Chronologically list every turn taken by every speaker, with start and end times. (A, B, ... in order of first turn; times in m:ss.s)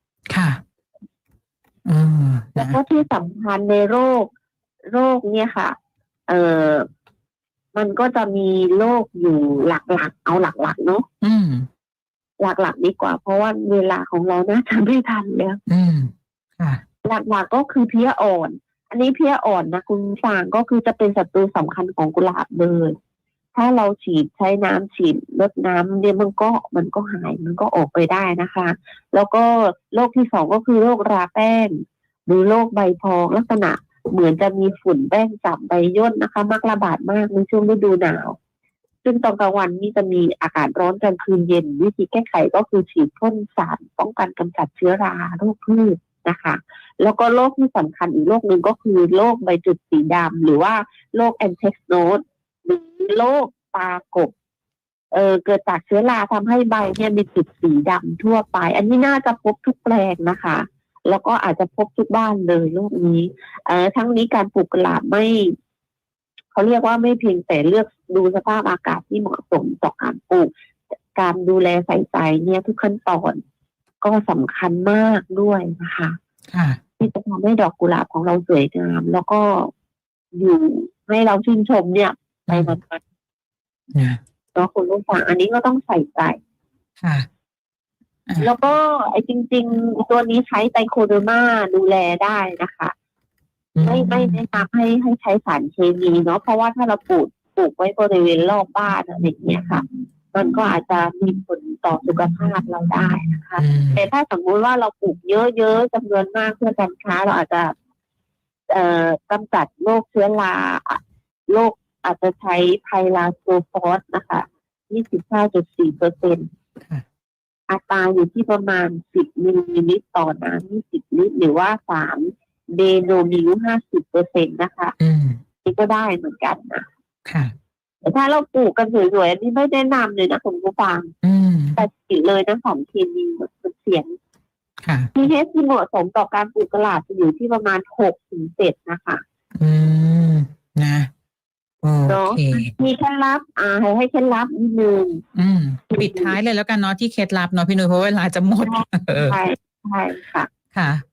0:00.3-0:00.6 A
0:01.9-0:02.8 A
0:02.6-0:04.3 B
0:04.9-0:05.8 B
0:06.3-0:06.9 B
0:07.8-0:11.1 B
0:11.2-0:11.7 A
0:12.4-0:15.6 B
0:15.7-0:16.8 A
0:17.0-0:23.0 B
0:23.6-0:38.4 B
0:39.0-0:54.3 B
0:55.1-1:05.5 B
1:06.5-1:10.5 B
1:11.2-1:13.4 B
1:14.0-1:16.2 B
1:16.5-1:16.8 A
1:17.0-1:19.7 B
1:20.4-1:23.0 B
1:22.5-1:22.8 A
1:23.9-1:24.2 A
1:24.6-1:26.4 B
1:27.0-1:27.3 A
1:28.4-1:32.9 B
1:33.8-1:34.4 A
1:33.8-1:47.7 B
1:43.6-1:44.0 A
1:48.7-1:56.5 B
1:57.7-2:05.0 B
2:05.0-2:05.4 A
2:05.6-2:06.9 B
2:07.3-2:07.5 A
2:08.0-2:11.1 B
2:11.2-2:11.8 A
2:11.8-2:14.1 B
2:14.8-2:15.1 A
2:15.2-2:19.2 B
2:19.6-2:21.1 A
2:21.8-2:22.7 A
2:22.1-2:25.2 B
2:25.4-2:29.4 A
2:25.9-2:26.4 B
2:28.6-2:30.5 B
2:30.7-2:31.0 A